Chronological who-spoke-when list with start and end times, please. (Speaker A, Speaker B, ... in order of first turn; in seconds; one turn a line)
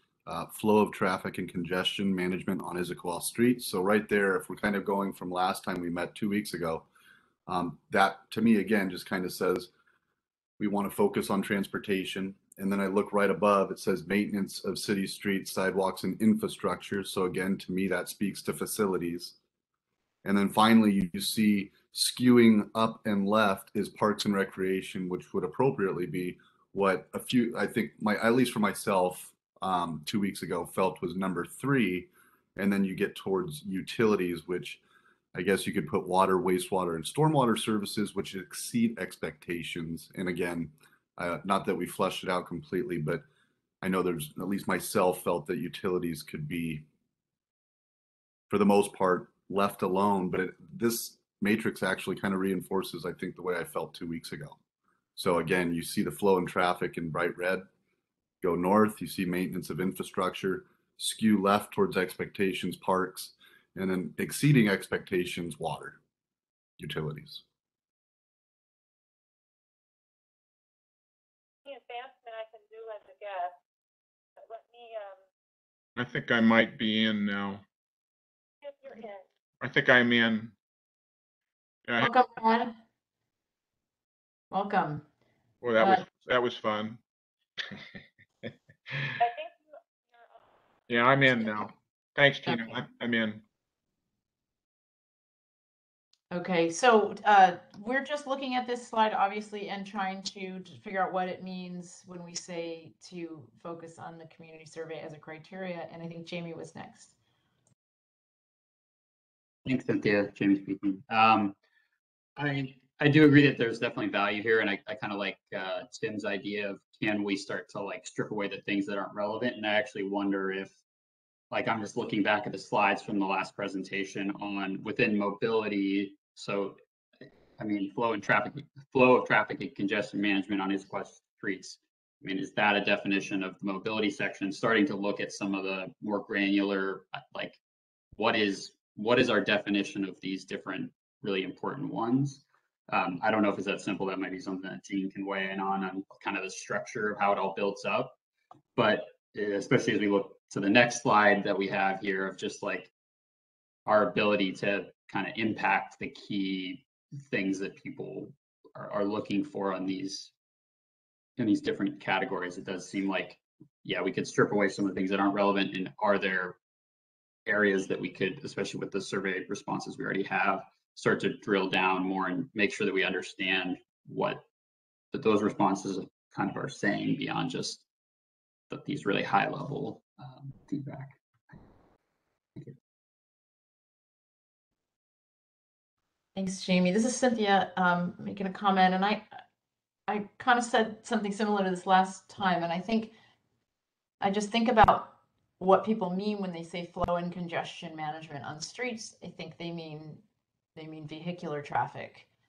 Speaker A: 0.3-6.9
Speaker A: 7.5-9.7
Speaker A: 10.6-19.4
Speaker A: 20.2-34.8
Speaker A: 35.3-43.2
Speaker A: 43.8-46.8
Speaker A: 48.5-54.6
Speaker A: 55.2-57.7
Speaker A: 58.4-66.0
Speaker A: 66.8-67.4
Speaker B: 71.7-73.5
Speaker B: 74.4-75.2
Speaker C: 76.0-77.6
Speaker B: 78.6-79.2
Speaker C: 79.6-80.5
Speaker C: 81.9-82.1
Speaker D: 82.0-82.8
Speaker D: 84.5-85.0
Speaker C: 85.6-87.0
Speaker D: 85.8-86.0
Speaker B: 89.2-90.4
Speaker C: 90.9-93.4
Speaker D: 92.4-92.8
Speaker D: 96.3-107.2
Speaker E: 109.7-111.6
Speaker E: 112.4-120.8
Speaker E: 121.5-137.6
Speaker E: 138.2-148.2
Speaker E: 148.8-152.9
Speaker E: 153.9-160.3
Speaker E: 161.4-166.6
Speaker E: 167.5-174.4
Speaker E: 175.1-177.8
Speaker E: 178.7-181.6
Speaker D: 186.3-189.4
Speaker D: 190.1-193.1
Speaker D: 194.2-200.2
Speaker D: 200.8-202.3